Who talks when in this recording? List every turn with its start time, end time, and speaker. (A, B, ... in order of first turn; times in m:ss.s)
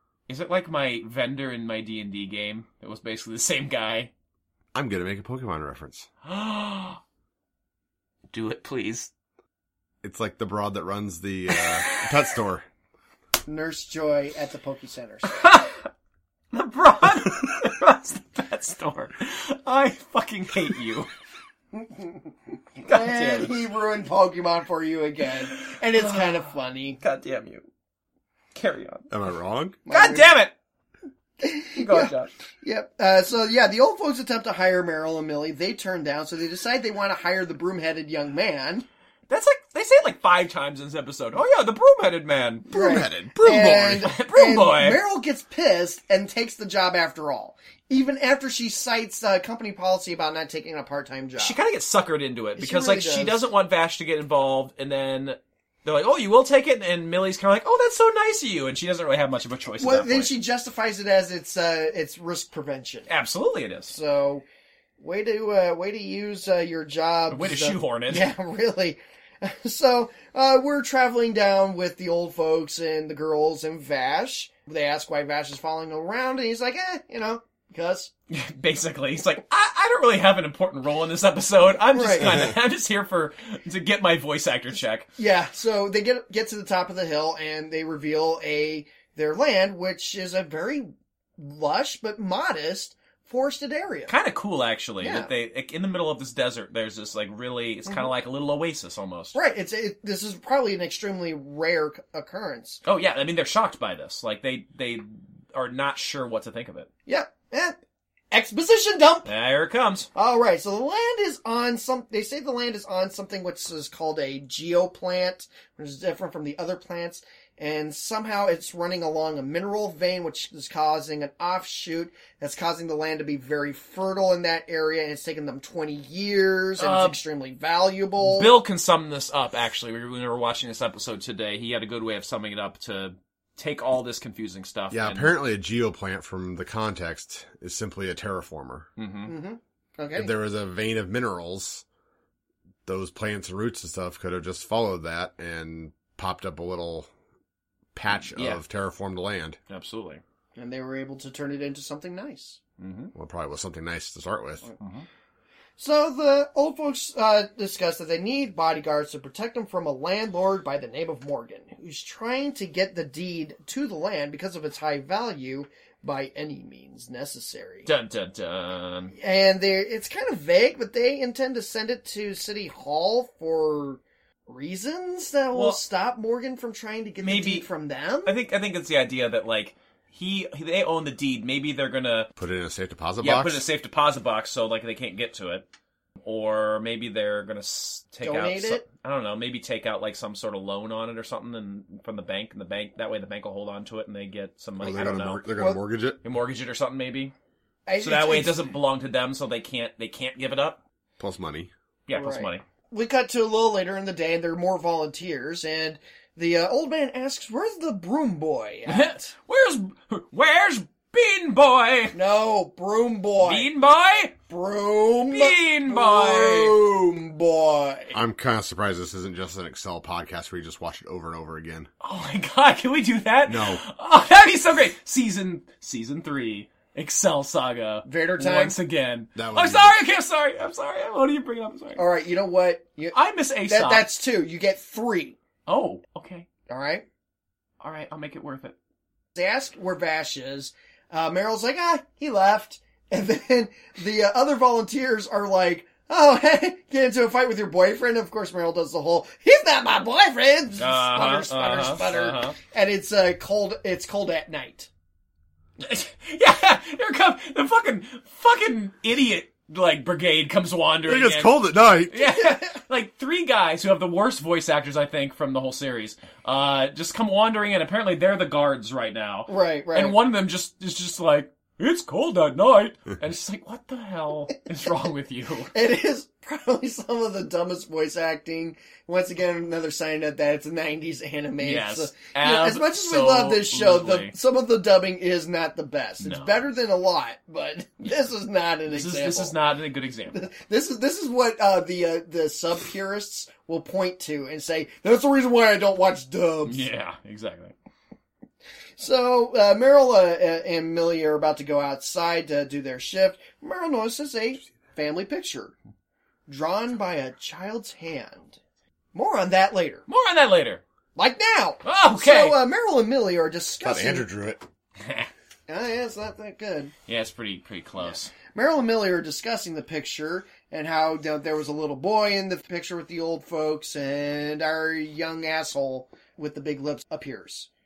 0:00.3-0:04.1 A
0:04.7-0:06.1 B
0:06.2-0:07.0 A
0:08.3-0:09.1 A
0:10.0-0:12.6 B
0:11.5-0:12.1 A
0:13.5-0:15.3 C
0:15.3-0:15.9 A
0:16.5-0:21.1 A
0:21.7-0:22.3 C
0:22.8-0:27.0 C
0:22.8-0:23.5 A
0:25.6-0:26.3 A
0:27.0-0:27.7 A
0:28.5-0:29.1 A
0:29.1-0:29.8 B
0:29.9-0:30.3 C
0:29.9-0:30.5 A
0:31.4-0:38.9 C
0:31.8-0:32.3 A
0:39.3-0:45.0 A
0:42.7-0:43.3 B
0:42.7-0:51.6 C
0:51.4-1:00.3 A
0:52.6-0:53.4 C
0:59.8-1:03.1 C
1:03.1-1:04.0 A
1:03.9-1:04.4 C
1:05.0-1:18.1 C
1:07.3-1:08.3 A
1:18.3-1:25.1 A
1:21.9-1:22.5 C
1:25.2-1:34.1 C
1:34.1-1:39.4 A
1:35.0-1:35.3 C
1:39.3-1:42.8 C
1:42.8-1:46.9 A
1:47.1-1:47.8 C
1:48.3-1:49.3 C
1:49.2-1:50.1 A
1:50.2-2:08.5 C
2:06.8-2:07.2 A
2:08.2-2:15.3 A
2:14.9-2:18.9 B
2:19.0-2:19.3 A
2:19.3-2:20.3 C
2:20.2-2:21.8 B
2:22.9-2:27.1 B
2:28.0-2:29.6 B
2:28.3-2:28.6 A
2:29.7-2:30.2 A
2:30.6-2:32.6 C
2:32.8-2:33.1 A
2:33.2-2:34.7 B
2:34.8-2:35.1 A
2:35.8-2:47.9 C
2:47.9-2:49.1 A
2:49.2-2:58.4 C
2:55.5-2:55.8 A
2:57.2-2:57.7 A
2:58.2-3:02.3 A
3:02.4-3:03.7 B
3:03.2-3:05.7 A
3:06.2-3:15.4 A
3:08.2-3:08.8 C
3:14.8-3:16.2 B
3:16.2-3:17.3 A
3:17.9-3:18.7 C
3:18.0-3:20.8 A
3:21.2-3:21.7 B
3:22.1-3:22.6 A
3:22.1-3:29.3 C
3:28.9-3:32.2 A
3:32.1-3:33.7 C
3:33.4-3:34.3 A
3:34.5-3:38.2 C
3:35.3-3:36.8 A
3:38.1-3:41.9 B
3:42.0-3:52.0 A
3:43.5-3:43.8 B
3:48.1-3:48.8 C
3:49.4-3:50.0 B
3:52.0-3:55.4 C
3:53.1-3:54.1 A
3:55.7-3:56.5 A
3:56.7-3:57.0 C
3:57.8-3:58.8 A
3:59.4-4:14.9 C
4:10.8-4:12.6 A
4:15.8-4:35.7 A
4:21.0-4:22.2 B
4:22.4-4:22.7 C
4:29.5-4:30.2 C
4:35.7-4:49.6 C
4:41.6-4:44.3 A
4:46.2-4:46.6 A
4:48.9-4:50.5 A
4:50.3-4:56.9 C
4:56.7-4:57.7 A
4:59.0-5:05.7 C
5:06.5-5:08.6 C
5:09.1-5:10.0 C
5:10.1-5:10.8 A
5:11.2-5:14.3 C
5:11.8-5:12.6 A
5:13.8-5:14.6 B
5:15.0-5:15.3 A
5:15.7-5:16.9 C
5:17.1-5:18.3 A
5:18.1-5:27.7 C